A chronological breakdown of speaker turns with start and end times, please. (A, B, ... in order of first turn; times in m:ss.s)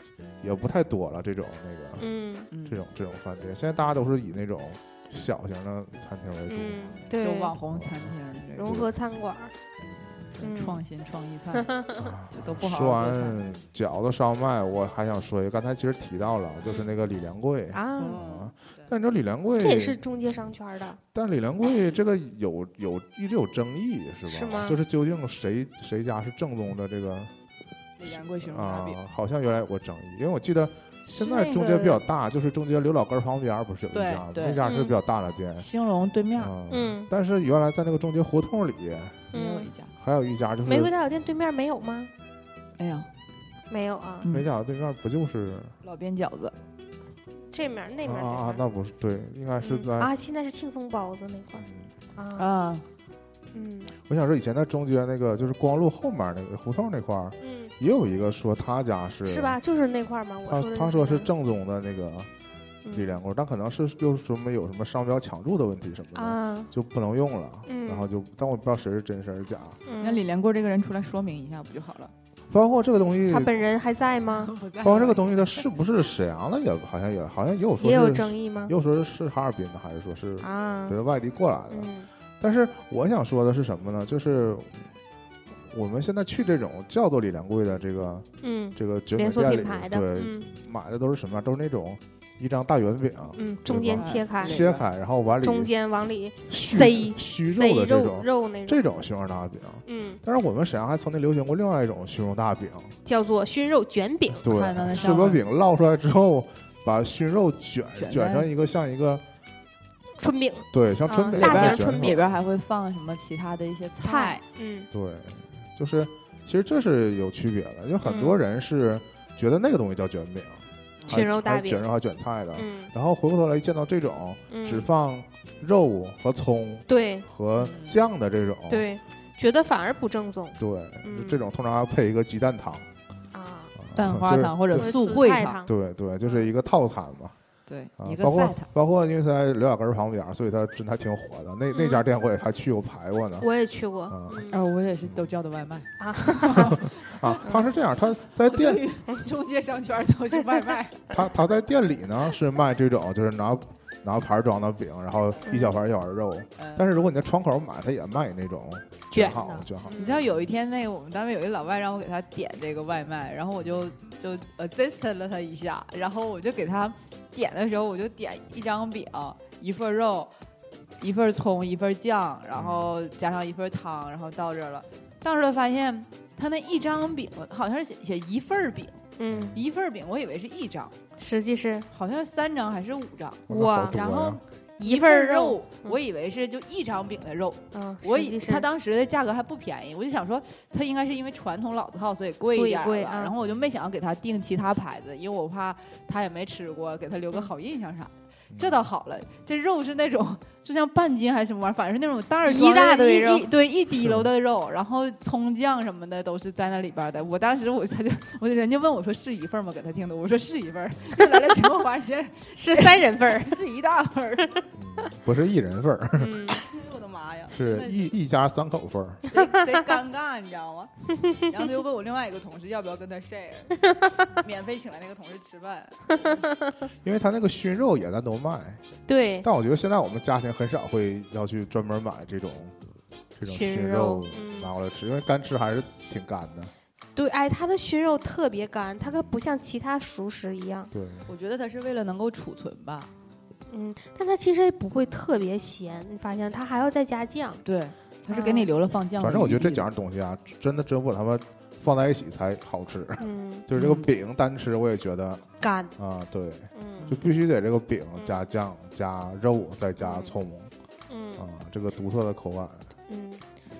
0:00.4-0:02.1 A
0:02.0-0:02.5 B
0:02.5-0:02.8 C
0:02.6-0:07.0 A
0:06.5-0:07.5 B
0:07.2-0:08.8 C
0:07.7-0:08.1 A
0:08.6-0:09.5 B
0:08.6-0:08.9 A
0:09.8-0:10.4 A
0:10.4-0:10.8 B
0:10.4-0:11.7 C
0:11.6-0:12.0 B
0:12.0-0:20.0 A
0:12.3-0:13.4 C
0:17.7-0:18.2 B
0:18.0-0:18.8 C
0:19.6-0:21.0 B
0:21.1-0:27.3 A
0:24.3-0:24.8 B
0:28.0-0:29.0 C
0:28.4-0:35.7 A
0:31.1-0:32.0 C
0:33.9-0:34.6 C
0:34.6-0:35.0 B
0:35.6-0:36.5 C
0:36.4-0:39.3 A
0:36.7-0:37.1 B
0:39.3-0:39.7 B
0:39.3-0:39.9 C
0:40.0-0:40.9 A
0:40.6-0:42.1 B
0:42.8-0:43.1 C
0:43.7-0:44.3 B
0:44.2-0:44.5 C
0:44.3-0:45.8 A
0:45.8-0:46.5 C
0:47.5-0:48.6 B
0:48.0-0:50.1 A
0:49.6-0:51.6 B
0:51.6-0:51.9 A
0:52.2-0:52.5 B
0:52.4-0:52.8 C
0:53.5-0:53.9 B
0:54.0-0:59.6 A
0:57.4-0:57.7 B
0:59.2-1:01.3 B
1:00.5-1:02.3 A
1:02.8-1:03.2 B
1:02.9-1:09.8 A
1:06.1-1:06.7 B
1:07.7-1:08.1 B
1:09.8-1:10.2 B
1:10.0-1:12.1 C
1:12.5-1:13.5 A
1:13.3-1:14.5 B
1:14.3-1:15.6 C
1:14.8-1:24.9 A
1:17.8-1:18.7 B
1:20.4-1:21.0 B
1:21.7-1:22.1 B
1:25.6-1:35.7 A
1:28.4-1:30.5 B
1:33.4-1:34.6 B
1:33.9-1:34.8 C
1:35.4-1:38.8 B
1:36.5-1:42.9 A
1:39.8-1:40.2 B
1:43.0-1:44.4 B
1:44.3-1:49.2 A
1:44.4-1:45.4 C
1:48.0-1:48.5 C
1:50.2-1:52.2 B
1:50.7-1:52.4 A
1:51.3-1:54.4 C
1:54.0-1:54.9 B
1:54.9-2:08.9 A
1:58.0-1:58.4 B
2:01.1-2:01.8 B
2:02.5-2:02.9 B
2:04.5-2:04.9 B
2:06.9-2:07.2 B
2:07.6-2:08.0 C
2:08.7-2:11.4 B
2:10.6-2:12.9 A
2:13.3-2:13.7 B
2:13.8-2:14.9 A
2:13.9-2:15.6 C
2:14.8-2:15.7 B
2:15.6-2:17.3 A
2:17.7-2:18.7 C
2:18.0-2:23.5 A
2:21.7-2:22.0 B
2:23.4-2:24.6 B
2:24.1-2:24.5 A
2:24.5-2:27.4 C
2:26.0-2:26.8 B
2:26.5-2:28.8 A
2:27.4-2:27.7 B
2:28.4-2:31.0 C
2:31.1-2:40.0 A
2:35.4-2:35.8 B
2:36.6-2:36.8 C
2:39.1-2:40.2 B
2:39.9-2:50.3 C
2:51.0-2:59.0 C
2:52.5-2:52.9 A
2:59.2-2:59.5 B
2:59.3-2:59.6 A
2:59.5-3:00.9 C
3:01.2-3:01.9 B
3:01.9-3:34.6 C
3:03.5-3:04.4 A
3:03.5-3:04.0 B
3:04.8-3:06.0 B
3:07.7-3:08.6 B
3:12.5-3:13.3 B
3:18.5-3:18.9 A
3:22.4-3:23.5 B
3:24.0-3:24.3 A
3:31.2-3:31.5 B
3:32.5-3:33.6 B
3:34.7-3:36.5 A
3:36.1-3:36.6 B
3:36.6-3:38.1 C
3:37.5-3:39.2 A
3:39.3-3:40.9 C
3:39.3-3:39.8 B
3:41.2-3:41.6 B
3:41.5-3:43.8 C
3:43.9-3:44.4 B
3:44.4-3:46.4 C
3:46.1-3:46.7 B
3:47.0-3:48.8 A
3:49.1-3:49.5 B
3:49.4-3:52.8 A
3:53.4-3:56.7 A
3:53.4-3:54.7 B
3:57.2-4:00.9 B
4:00.9-4:01.3 A
4:01.3-4:03.1 C
4:03.7-4:07.6 B
4:07.6-4:09.8 C
4:08.3-4:08.7 B
4:09.2-4:15.4 A
4:13.2-4:13.7 B
4:13.7-4:14.1 C
4:15.6-4:15.9 B
4:16.0-4:20.7 A
4:16.7-4:17.2 B
4:18.2-4:18.5 B
4:20.0-4:20.3 B
4:21.1-4:21.4 B
4:21.4-4:22.9 A
4:23.1-4:23.4 B